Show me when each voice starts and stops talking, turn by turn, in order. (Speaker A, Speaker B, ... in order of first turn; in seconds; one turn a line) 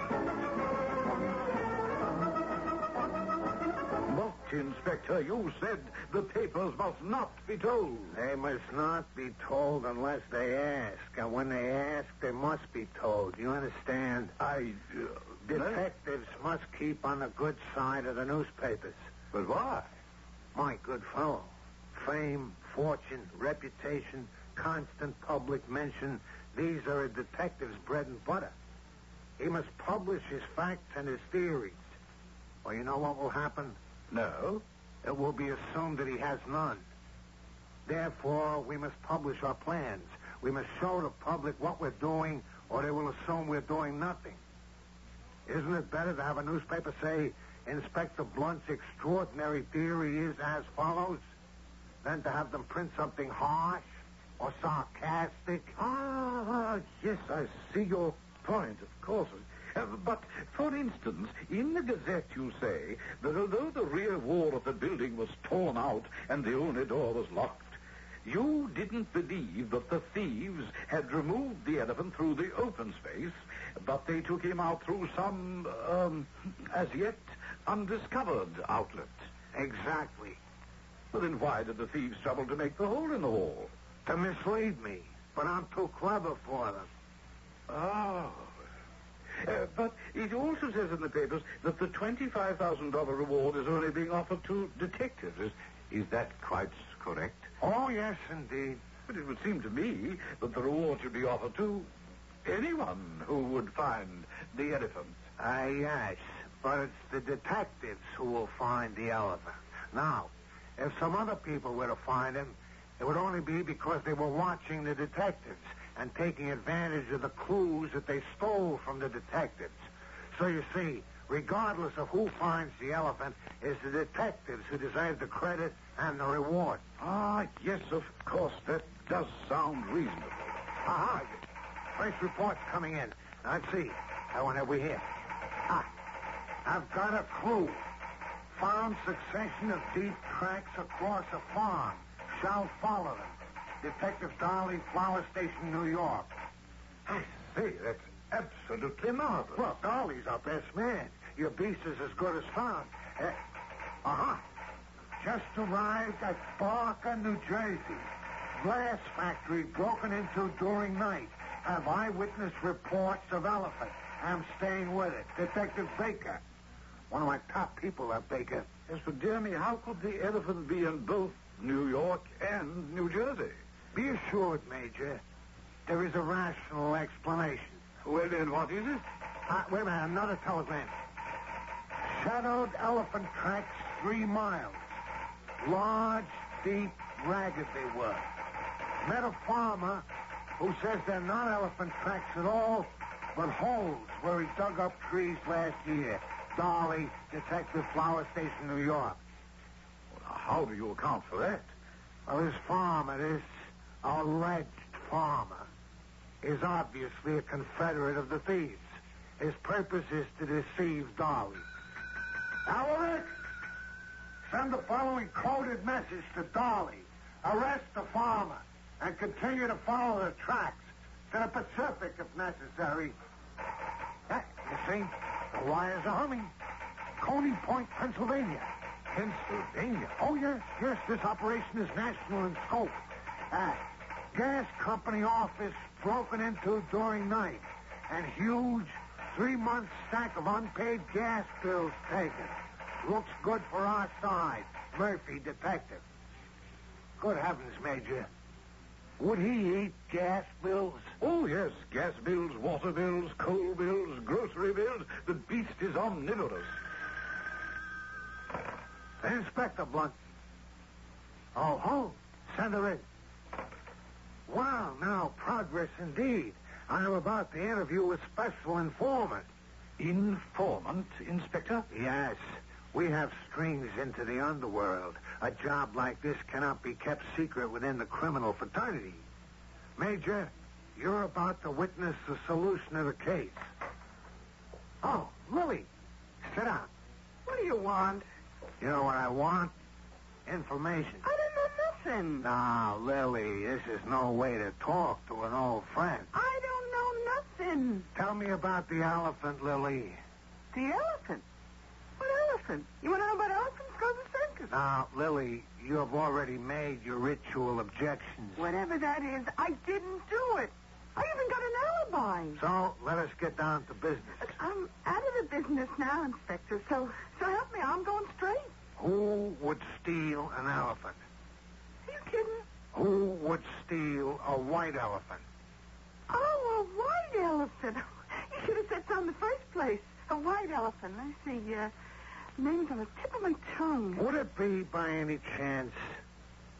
Speaker A: 4.0-8.1
Speaker B: 8.1-14.3
Speaker A: 14.4-15.8
Speaker B: 15.5-19.0
Speaker A: 19.3-19.9
Speaker B: 20.5-28.5
Speaker B: 29.4-31.9
Speaker B: 32.6-33.8
Speaker A: 34.1-34.6
Speaker B: 35.0-36.8
Speaker B: 37.9-44.4
Speaker B: 45.5-51.2
Speaker B: 52.0-53.9
Speaker B: 54.4-55.7
Speaker A: 55.8-79.1
Speaker B: 79.5-80.4
Speaker A: 81.1-83.7
Speaker B: 84.0-86.9
Speaker A: 87.7-88.5
Speaker A: 89.4-97.5
Speaker B: 97.6-98.8
Speaker A: 99.1-101.9
Speaker A: 102.4-105.2
Speaker B: 105.4-119.8
Speaker B: 120.3-126.8
Speaker A: 127.0-130.6
Speaker B: 130.8-131.4
Speaker B: 131.9-135.1
Speaker B: 136.6-137.8
Speaker B: 138.5-146.3
Speaker A: 147.1-149.6
Speaker B: 149.5-153.4
Speaker B: 154.0-154.4
Speaker B: 155.2-166.4
Speaker B: 167.1-168.7
Speaker A: 168.9-173.6
Speaker B: 173.9-175.2
Speaker B: 175.9-177.8
Speaker A: 178.0-179.0
Speaker B: 179.5-180.9
Speaker B: 182.0-184.8
Speaker B: 185.6-188.2
Speaker B: 189.0-190.0
Speaker B: 190.6-199.2
Speaker A: 200.1-201.7
Speaker B: 202.3-203.5
Speaker B: 204.0-205.7
Speaker B: 206.4-208.9
Speaker B: 209.4-211.6
Speaker B: 212.7-213.4
Speaker B: 214.5-223.1
Speaker B: 224.3-226.5
Speaker B: 227.2-228.7
Speaker A: 229.1-229.9
Speaker B: 229.8-246.0
Speaker B: 247.2-248.3
Speaker B: 249.2-251.1
Speaker A: 251.2-256.7
Speaker B: 259.2-260.1
Speaker B: 261.5-263.0
Speaker B: 264.5-269.4
Speaker A: 270.0-271.9
Speaker B: 271.9-279.2
Speaker B: 280.0-283.7
Speaker B: 285.0-285.9
Speaker B: 286.4-286.9
Speaker C: 287.4-288.2
Speaker B: 288.8-289.7
Speaker B: 290.4-291.2
Speaker C: 291.2-292.4
Speaker B: 292.4-296.3
Speaker C: 296.3-298.1
Speaker B: 298.1-300.2
Speaker C: 300.7-301.4
Speaker C: 302.2-304.7
Speaker B: 304.7-308.7
Speaker C: 308.6-312.6
Speaker B: 312.6-314.5
Speaker C: 314.4-318.7
Speaker B: 319.0-321.2
Speaker C: 322.1-322.6
Speaker B: 322.9-325.4
Speaker C: 326.3-331.9
Speaker C: 332.6-334.2
Speaker B: 334.1-336.1